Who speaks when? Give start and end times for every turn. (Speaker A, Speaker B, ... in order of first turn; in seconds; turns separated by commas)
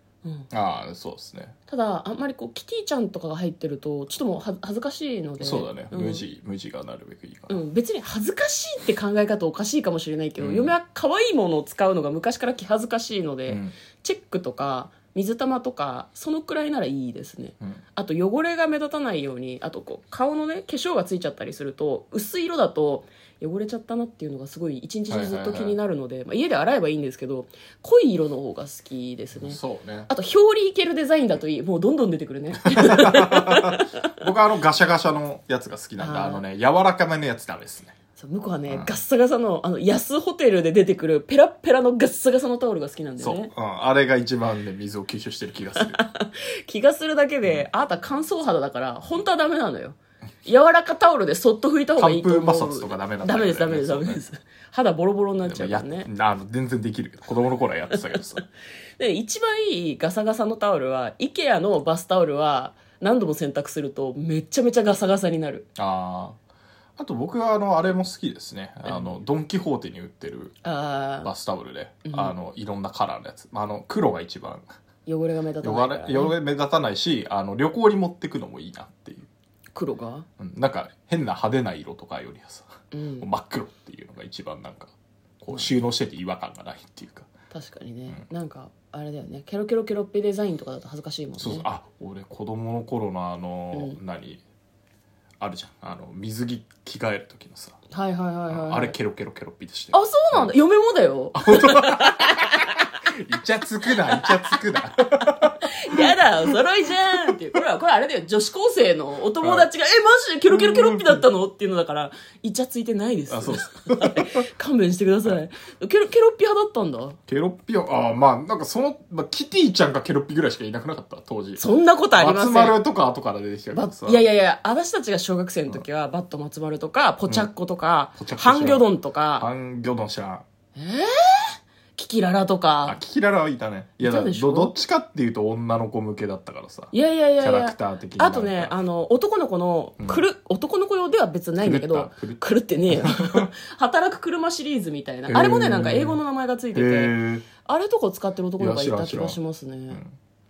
Speaker A: 0.2-0.5, Speaker B: 0.5-1.6, Speaker A: 1.7-6.2, Speaker B: 5.4-7.6, Speaker A: 7.5-34.1, Speaker B: 10.4-10.8, Speaker B: 13.5-13.7, Speaker B: 25.1-25.8, Speaker B: 29.4-30.1, Speaker B: 32.6-38.0, Speaker A: 36.0-36.4, Speaker A: 38.2-43.5, Speaker B: 38.7-38.9, Speaker B: 43.2-46.0, Speaker A: 45.8-56.1, Speaker B: 52.0-54.2, Speaker B: 55.4-58.4, Speaker A: 59.0-65.7, Speaker B: 65.8-66.4, Speaker B: 67.0-70.5, Speaker A: 70.6-71.3, Speaker B: 71.2-74.7, Speaker A: 72.1-72.3, Speaker A: 75.1-76.4, Speaker B: 75.6-79.3, Speaker A: 79.8-80.3, Speaker B: 80.4-87.3, Speaker A: 82.9-83.3, Speaker A: 87.5-91.7, Speaker B: 91.4-94.4, Speaker B: 95.4-97.8, Speaker A: 97.9-99.0, Speaker B: 98.5-100.5, Speaker A: 99.9-103.0, Speaker B: 101.3-102.5, Speaker B: 103.1-106.6, Speaker A: 103.9-104.6, Speaker A: 105.2-117.2, Speaker B: 109.4-109.7, Speaker B: 110.5-111.2, Speaker B: 113.3-114.3, Speaker B: 117.3-121.6, Speaker A: 121.6-122.8, Speaker B: 122.2-124.2, Speaker A: 123.7-129.5, Speaker B: 128.2-130.4, Speaker A: 130.8-133.0, Speaker B: 132.9-138.8, Speaker A: 134.0-134.8, Speaker A: 136.9-150.0, Speaker B: 140.0-140.2, Speaker B: 141.6-143.5, Speaker B: 145.3-146.2, Speaker B: 146.7-147.5, Speaker B: 148.6-149.4, Speaker B: 149.9-150.2